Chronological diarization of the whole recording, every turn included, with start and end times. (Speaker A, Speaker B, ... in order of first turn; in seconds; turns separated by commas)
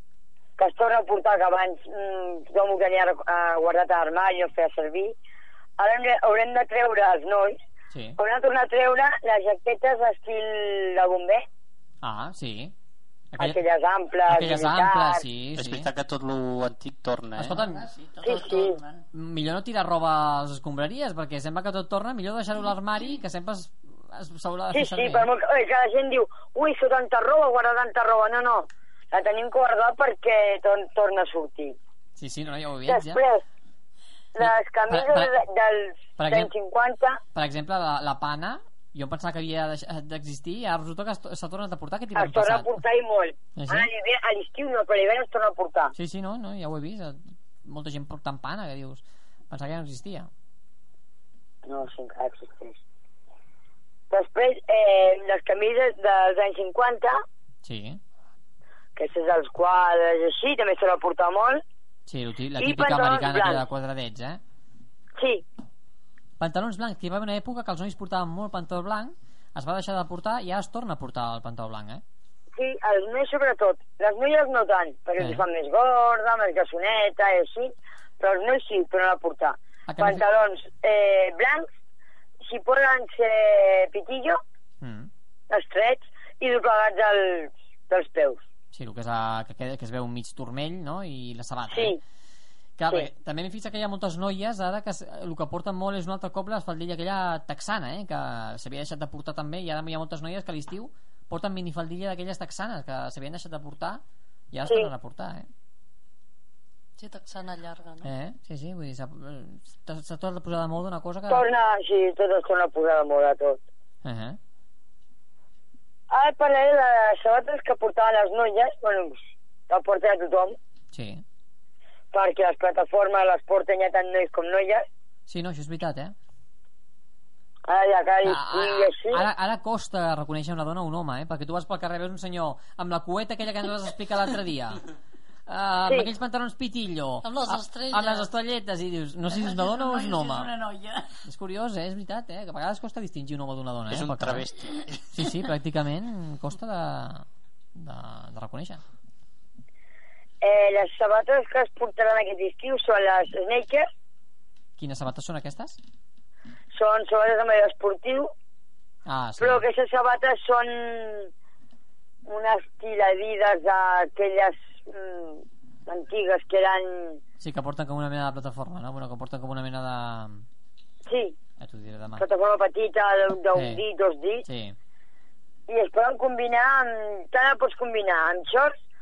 Speaker A: 0.6-5.2, Speaker A: 5.8-7.6, Speaker A: 8.2-11.4, Speaker B: 12.0-12.7, Speaker B: 13.3-13.6, Speaker A: 13.4-15.2, Speaker B: 14.3-15.9, Speaker C: 15.6-17.6, Speaker B: 17.4-17.9, Speaker D: 17.5-19.1, Speaker A: 18.2-18.8, Speaker B: 19.1-25.3, Speaker A: 24.7-31.8, Speaker B: 32.2-33.2, Speaker A: 32.9-33.4, Speaker A: 34.4-37.2, Speaker B: 34.4-35.3, Speaker B: 36.2-36.5, Speaker B: 37.4-42.8, Speaker A: 42.1-45.9, Speaker B: 43.6-43.9, Speaker B: 46.0-50.3, Speaker A: 51.7-52.8, Speaker A: 54.1-57.2, Speaker B: 57.6-58.0, Speaker A: 59.0-61.6, Speaker B: 62.1-64.4, Speaker A: 62.6-63.6, Speaker A: 65.2-65.4, Speaker B: 66.4-72.0, Speaker A: 72.6-81.7, Speaker B: 75.2-75.4, Speaker B: 79.9-80.2, Speaker A: 82.5-84.4, Speaker B: 84.8-85.1, Speaker A: 85.5-88.4, Speaker B: 88.7-92.0, Speaker A: 91.7-92.0, Speaker B: 92.8-105.5, Speaker A: 104.7-104.9, Speaker E: 107.0-108.1, Speaker B: 108.0-111.5, Speaker A: 111.3-113.6, Speaker B: 114.0-114.4, Speaker A: 116.1-120.6, Speaker B: 120.9-121.2, Speaker A: 122.1-124.9, Speaker B: 125.3-126.1, Speaker A: 127.7-129.3, Speaker B: 128.2-134.8, Speaker B: 135.5-140.5, Speaker E: 137.2-138.3, Speaker D: 139.3-141.2, Speaker B: 141.3-144.5, Speaker C: 143.9-145.0, Speaker B: 145.1-148.8, Speaker A: 150.4-153.9, Speaker B: 154.8-155.8, Speaker A: 156.7-158.3, Speaker B: 159.1-159.7, Speaker A: 159.4-161.3, Speaker A: 162.3-167.2, Speaker B: 167.4-170.4, Speaker A: 171.1-171.4, Speaker B: 171.6-172.2, Speaker A: 172.2-174.4, Speaker B: 173.6-173.8, Speaker B: 174.5-174.8, Speaker A: 175.7-178.8